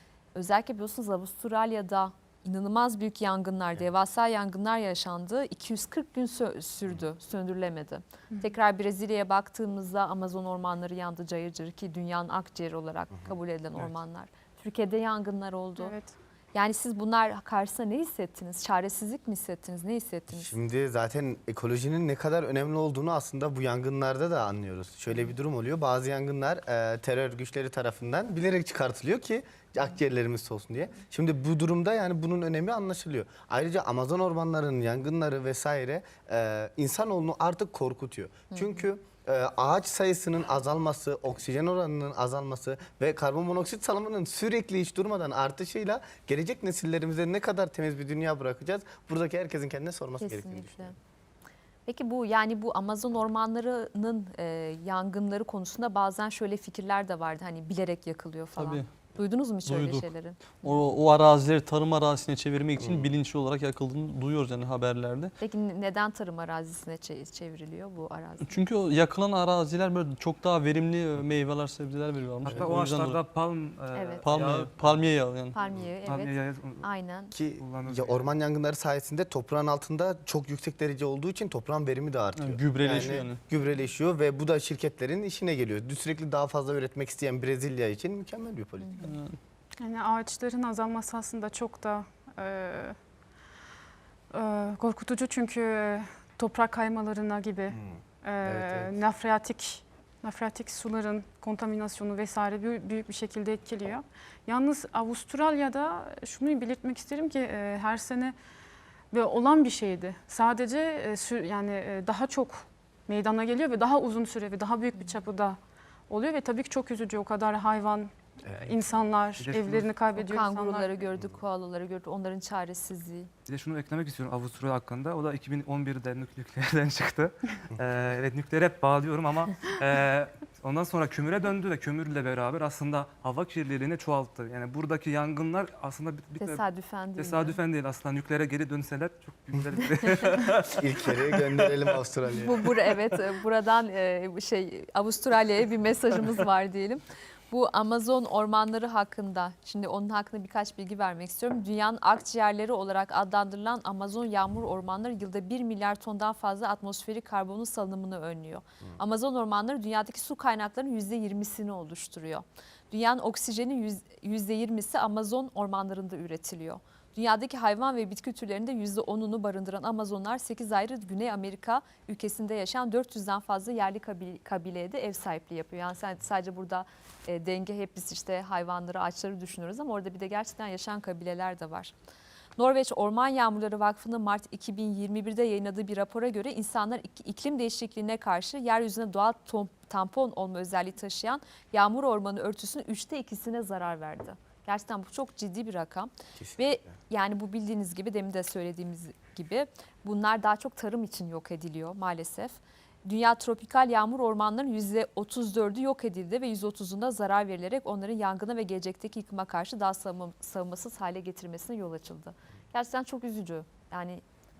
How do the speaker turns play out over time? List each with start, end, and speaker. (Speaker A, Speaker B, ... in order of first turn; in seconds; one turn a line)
Speaker A: 0.3-15.9
Speaker B: 15.8-16.1
Speaker A: 16.5-20.5
Speaker C: 20.3-50.9
Speaker A: 38.5-38.8
Speaker A: 50.2-51.0
Speaker A: 51.9-60.8
Speaker D: 58.6-58.8
Speaker D: 59.6-65.3
Speaker C: 62.8-63.1
Speaker A: 65.4-68.5
Speaker D: 68.4-73.2
Speaker E: 72.4-75.0
Speaker A: 73.9-74.3
Speaker D: 74.2-75.6
Speaker A: 75.5-77.3
Speaker E: 76.0-76.9
Speaker C: 77.3-89.0
Speaker E: 77.6-78.3
Speaker D: 82.4-83.4
Speaker A: 88.8-89.1
Speaker D: 89.0-89.4
Speaker B: 89.8-92.9
Speaker B: 94.3-108.3
Speaker C: 98.4-98.9
Speaker B: 109.1-115.6
Speaker B: 116.1-120.9
Speaker E: 119.4-119.9
Speaker A: 120.1-123.3
Speaker E: 123.5-136.6
Speaker A: 136.4-137.6
Speaker E: 137.2-141.7
Speaker C: 140.7-142.7
Speaker A: 142.3-181.9
Speaker A: 182.6-214.2